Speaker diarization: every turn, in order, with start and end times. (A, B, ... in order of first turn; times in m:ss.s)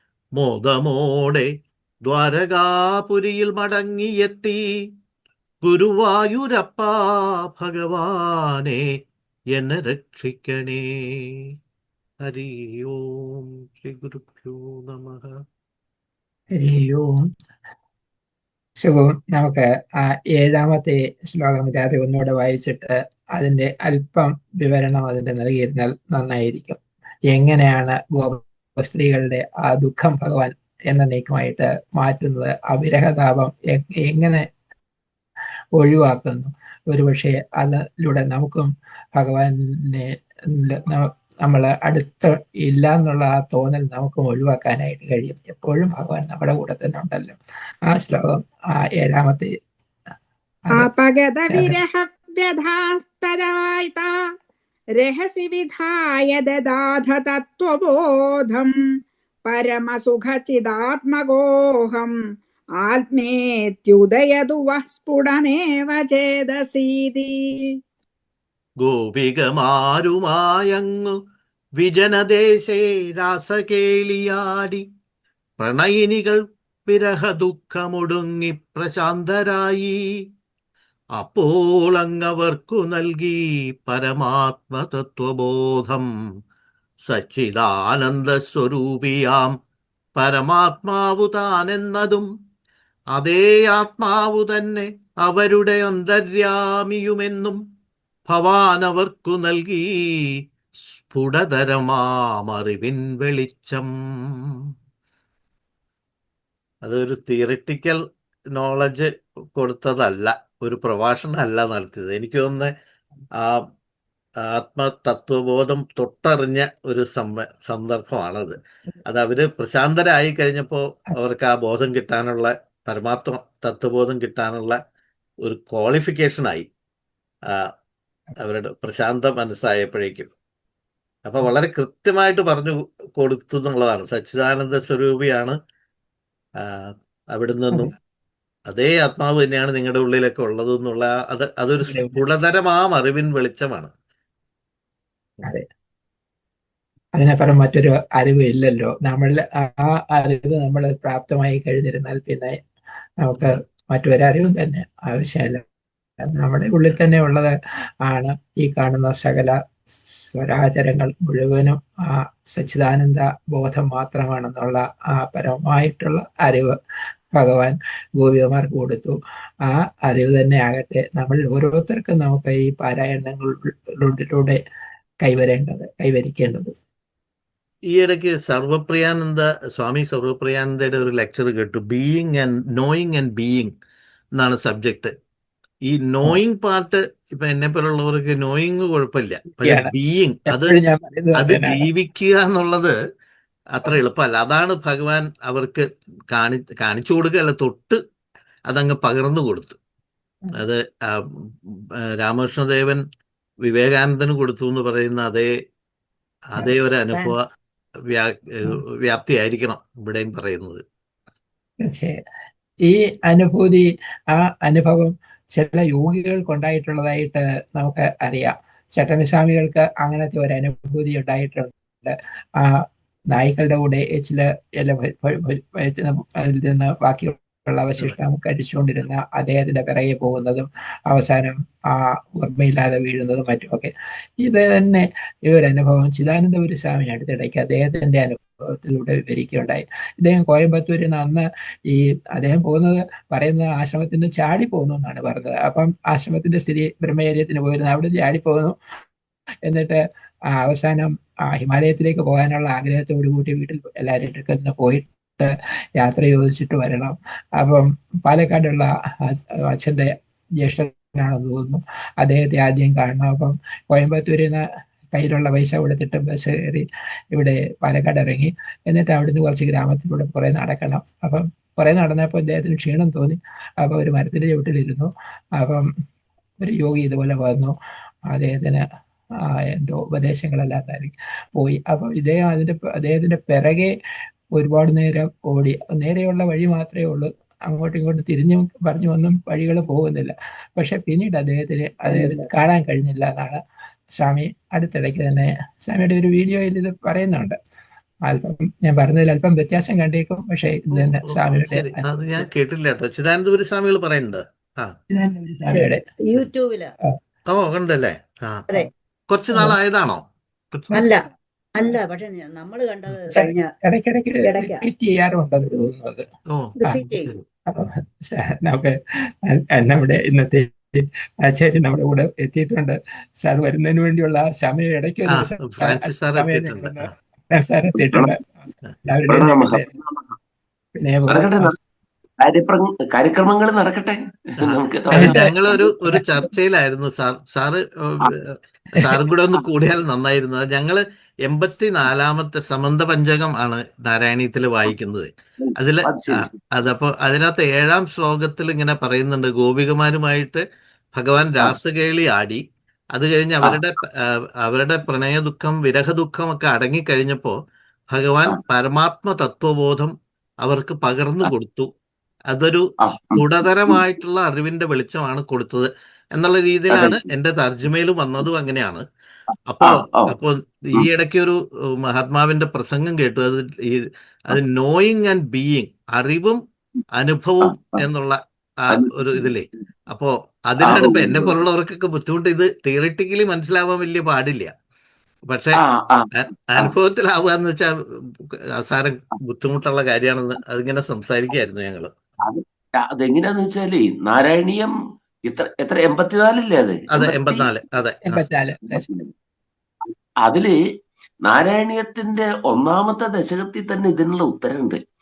0:00.4-0:01.5 A
0:02.0-0:04.6 A
0:05.6-0:08.8 A
0:09.5-0:11.4 A
0:12.2-0:15.4 A
0:16.5-0:17.2 B
0:18.8-0:26.8 B
0:27.3-0:34.5 B
0:35.8-0:47.4 B
0:47.9-0:49.5 B
0:50.7-0:54.1 C
0:51.5-0:51.8 B
0:55.0-0:58.7 C
0:59.5-1:02.1 C
1:02.8-1:07.4 C
1:08.8-1:11.2 A
1:11.8-1:14.8 A
1:15.6-1:20.0 A
1:21.2-1:26.0 A
1:27.1-1:29.5 A
1:30.2-1:32.3 A
1:33.2-1:37.6 A
1:38.3-1:40.4 A
1:41.0-1:44.6 A
1:46.8-1:48.0 A
1:48.5-1:52.7 A
1:53.4-1:53.7 A
1:54.4-2:04.8 A
2:05.4-2:06.7 A
2:08.4-2:10.3 A
2:11.2-2:15.6 A
2:16.6-2:17.9 A
2:18.7-2:23.9 A
2:21.8-2:22.2 B
2:27.2-2:32.6 B
2:33.2-2:35.6 B
2:36.2-2:37.5 B
2:38.1-2:39.6 B
2:40.2-2:46.7 B
2:47.4-2:54.6 B
2:55.2-2:56.7 B
2:57.9-3:03.7 A
3:04.4-3:05.1 A
3:05.9-3:10.8 A
3:09.6-3:09.9 B
3:10.5-3:11.8 B
3:11.4-3:12.9 A
3:13.7-3:18.0 A
3:18.7-3:19.8 A
3:20.6-3:23.0 A
3:23.7-3:25.5 A
3:26.6-3:27.3 B
3:26.6-3:27.4 A
3:28.1-3:30.8 A
3:31.8-3:32.2 B
3:32.8-3:42.7 B
3:43.3-4:08.7 B
4:09.6-4:24.6 B
4:25.1-4:35.8 B
4:36.6-4:37.7 B
4:38.3-4:38.8 B
4:39.5-4:43.9 B
4:44.6-4:53.6 B
4:52.1-4:52.5 D
4:54.2-4:57.6 B
4:58.3-5:02.5 B
5:00.9-5:04.9 A
5:05.1-5:06.0 B
5:05.7-5:06.9 D
5:07.5-5:08.6 A
5:09.3-5:10.9 A
5:10.9-5:13.7 D
5:13.3-5:16.2 B
5:14.4-5:14.8 D
5:16.5-5:17.4 A
5:16.8-5:17.4 D
5:17.7-5:19.0 B
5:19.5-5:29.9 B
5:25.3-5:27.1 A
5:28.0-5:28.3 E
5:29.3-5:30.3 E
5:31.0-5:31.8 B
5:31.3-5:31.7 E
5:32.4-5:35.8 E
5:34.6-5:38.3 A
5:35.1-5:36.3 B
5:39.0-5:50.6 A
5:45.6-5:46.6 E
5:51.2-5:52.6 A
5:53.1-5:54.1 A
5:54.6-5:57.6 A
5:58.1-6:01.9 A
6:02.5-6:09.0 A
6:03.0-6:04.0 E
6:06.9-6:07.2 E
6:09.7-6:16.6 A
6:09.8-6:10.3 E
6:17.2-6:24.7 A
6:17.6-6:18.0 E
6:18.9-6:19.5 E
6:20.8-6:21.6 E
6:25.5-6:25.8 A
6:25.8-6:26.9 E
6:26.7-6:27.9 A
6:28.8-6:32.1 A
6:32.4-6:34.9 E
6:35.5-6:37.7 E
6:37.2-6:38.4 A
6:38.2-6:39.0 B
6:38.9-6:39.3 E
6:40.1-6:40.7 E
6:41.4-6:45.0 E